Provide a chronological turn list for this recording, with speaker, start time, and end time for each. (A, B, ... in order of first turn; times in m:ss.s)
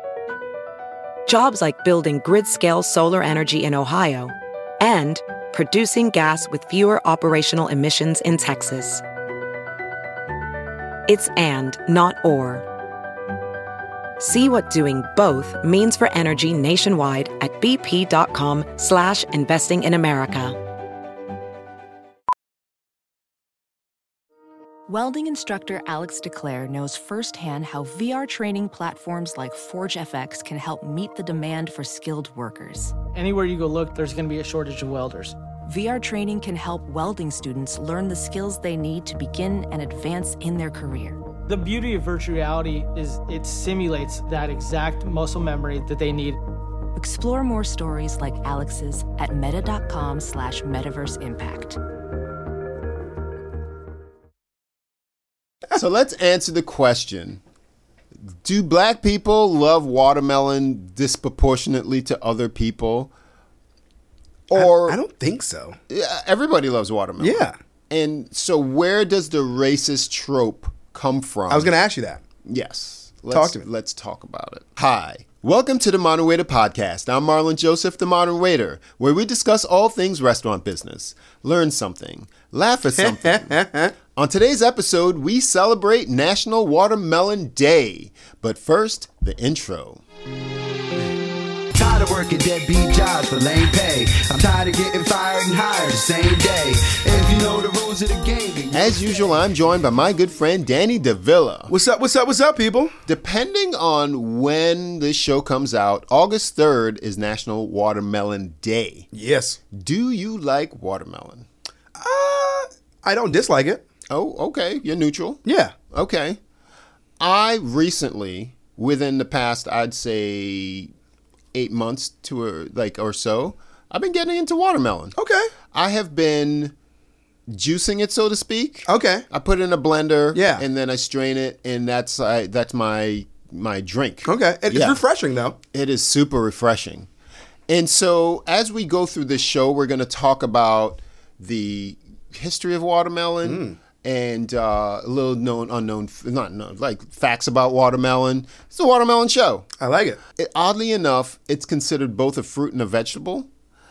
0:01.3-0:09.0 A
0:11.1-0:12.6 A
0:14.2-0:20.6 A
0:24.9-0:32.9 B
0:33.1-0:35.4 C
0:35.7-0:41.2 B
0:41.5-0:46.4 C
0:47.0-0:51.8 B
0:55.7-0:57.4 D
0:58.3-1:03.1 D
1:04.5-1:05.8 E
1:04.5-1:05.0 D
1:05.9-1:11.7 D
1:07.2-1:07.6 E
1:11.5-1:12.2 E
1:12.4-1:30.0 D
1:13.3-1:13.6 E
1:23.0-1:23.9 E
1:31.7-1:38.9 F
1:38.7-1:41.7 D
1:41.7-1:42.9 E
1:43.0-1:49.1 D
1:49.1-1:49.6 E
1:49.7-1:51.4 D
1:52.0-1:53.8 E
1:54.1-1:56.4 D
1:55.4-1:55.7 E
1:57.2-2:00.9 D
2:01.5-2:05.1 D
2:05.1-2:05.5 E
2:05.7-2:06.7 D
2:07.5-2:15.0 D
2:08.8-2:09.2 E
2:10.3-2:10.6 E
2:14.2-2:15.6 E
2:15.7-2:17.1 D
2:17.7-2:29.7 D
2:23.4-2:23.8 E
2:29.8-2:30.2 E
2:30.4-2:33.5 D